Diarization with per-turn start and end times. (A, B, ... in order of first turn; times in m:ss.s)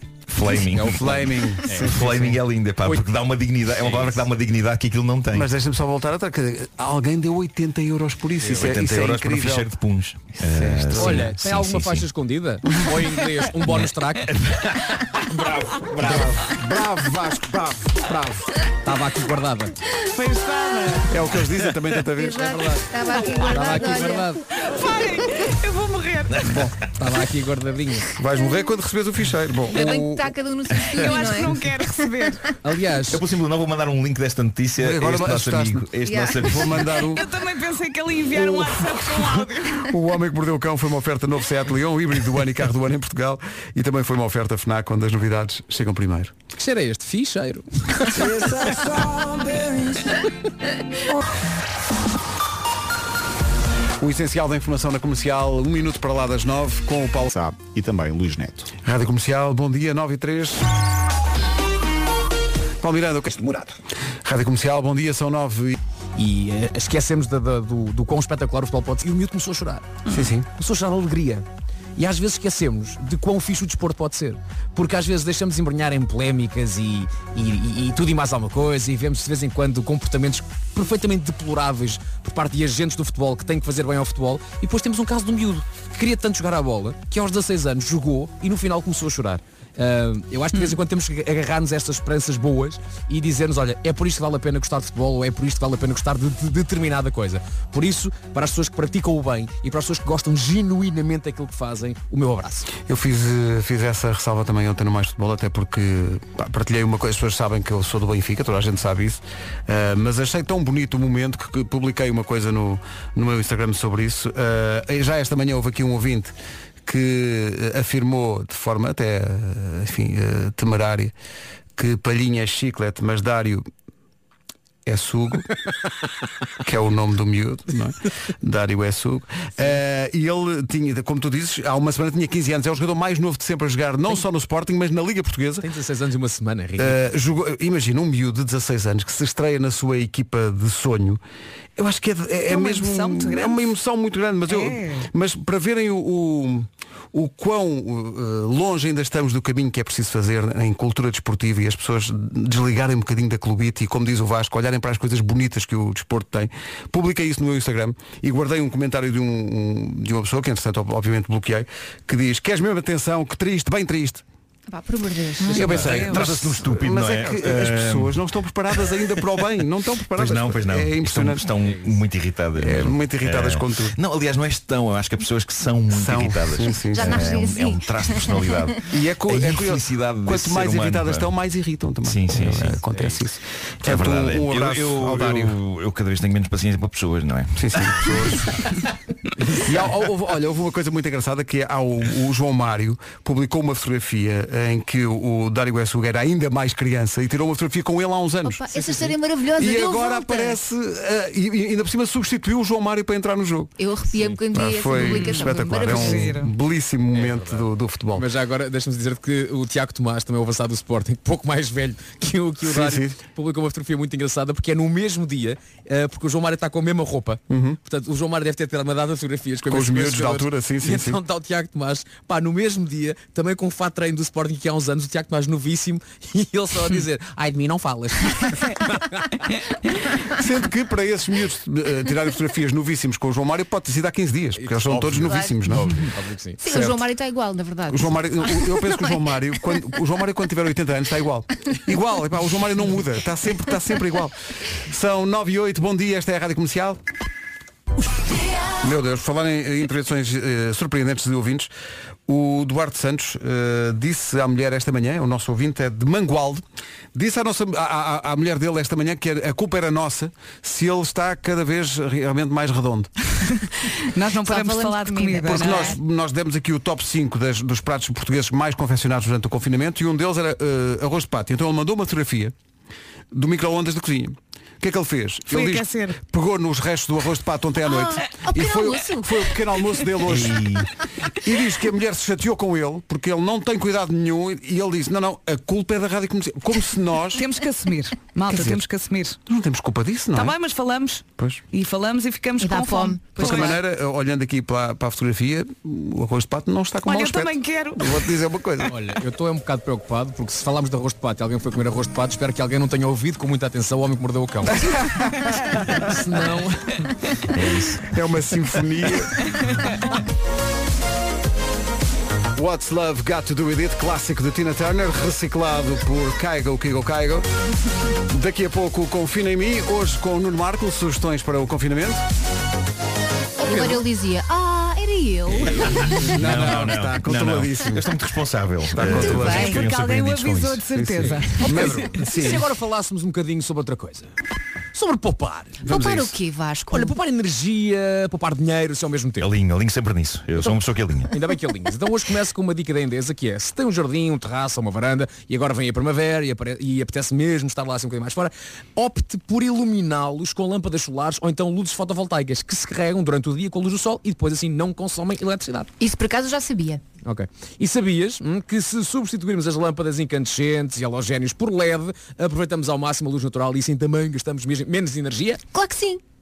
0:00.3-0:05.5 A
0:00.6-0:03.0 B
0:00.8-0:02.4 C
0:03.7-0:04.3 B
0:05.3-0:09.7 C
0:08.4-0:08.8 B
0:08.5-0:12.1 A
0:10.4-0:11.4 C
0:10.9-0:14.3 B
0:13.7-0:16.5 A
0:16.0-0:18.5 C
0:18.8-0:19.7 B
0:20.1-0:21.1 D
0:21.1-0:22.8 C
0:22.1-0:24.3 E
0:22.4-0:22.8 B
0:23.4-0:24.4 B
0:24.6-0:26.4 D
0:26.3-0:26.6 A
0:26.4-0:26.7 C
0:27.0-0:28.1 B
0:28.2-0:30.3 C
0:29.7-0:32.3 E
0:30.8-0:32.4 D
0:32.6-0:33.2 B
0:33.1-0:36.7 A
0:34.8-0:37.3 C
0:36.0-0:37.1 E
0:37.0-0:39.9 D
0:38.3-0:46.3 C
0:46.6-0:48.3 B
0:48.1-0:50.2 C
0:54.0-0:57.3 C
0:57.3-0:58.7 F
0:58.8-1:00.6 C
1:02.8-1:03.3 C
1:03.3-1:03.7 F
1:04.2-1:05.8 C
1:06.2-1:10.0 B
1:10.1-1:10.5 C
1:10.5-1:11.4 B
1:12.0-1:42.7 B
1:42.8-1:56.3 C
1:56.8-2:01.1 C
2:01.8-2:03.7 C
2:04.8-2:05.5 C
2:06.6-2:15.7 C
2:15.6-2:17.0 B
2:16.8-2:21.2 C
2:21.8-2:44.2 C
2:22.5-2:23.6 D
2:24.5-2:25.1 D
2:44.7-2:46.2 E
2:45.4-2:51.5 C
2:45.6-2:45.9 B
2:45.6-2:48.2 A
2:50.1-3:01.3 A
2:51.6-2:52.0 B
2:52.6-2:54.0 C
2:55.9-2:57.4 C
2:56.9-2:58.7 E
2:58.9-3:05.6 C
3:02.0-3:02.8 A
3:02.4-3:03.2 B
3:03.8-3:08.4 A
3:07.6-3:08.5 C
3:09.5-3:09.7 B
3:09.6-3:18.7 C
3:18.4-3:20.6 E
3:19.6-3:23.7 C
3:23.8-3:26.3 E
3:24.1-3:24.4 B
3:24.5-3:28.3 C
3:24.9-3:26.5 D
3:27.1-3:49.4 B
3:32.6-3:33.2 C
3:37.5-3:37.8 C
3:39.7-3:41.2 C
3:50.3-3:56.1 C
3:54.6-3:56.6 B
3:55.1-3:55.5 E
3:56.6-3:59.1 E
3:56.6-3:57.0 C
3:57.9-4:07.0 C
4:08.8-4:11.7 C
4:12.3-4:16.6 C
4:17.1-4:23.1 C
4:24.0-4:26.0 D
4:24.4-4:26.0 E
4:25.5-4:32.5 C
4:33.3-4:47.4 C
4:35.5-4:36.2 D
4:37.8-4:39.5 E
4:40.2-4:40.9 A
4:47.4-4:49.4 D
4:48.5-4:48.8 C
4:49.5-4:50.5 C
4:50.3-4:53.8 D
4:51.4-4:51.6 C
4:52.6-4:53.8 E
4:53.4-4:58.9 C
4:57.0-4:58.2 D
4:58.8-5:05.0 B
5:04.8-5:05.3 C
5:05.7-5:07.1 B
5:08.0-5:09.4 C
5:12.5-5:17.5 C
5:18.3-5:22.2 C
5:23.6-5:26.6 E
5:23.7-5:24.0 B
5:25.6-5:26.3 B
5:26.3-5:28.1 C
5:26.4-5:30.8 A
5:28.9-5:29.9 C
5:29.0-5:29.8 E
5:29.4-5:31.6 D
5:30.8-5:32.7 C
5:31.2-5:34.3 B
5:34.9-5:35.8 B
5:35.8-5:36.3 C
5:35.9-5:37.1 E
5:36.9-5:39.5 B
5:39.4-5:41.3 A
5:41.3-5:55.9 B
5:56.0-5:57.0 E
5:57.2-6:05.6 B
6:05.7-6:06.2 E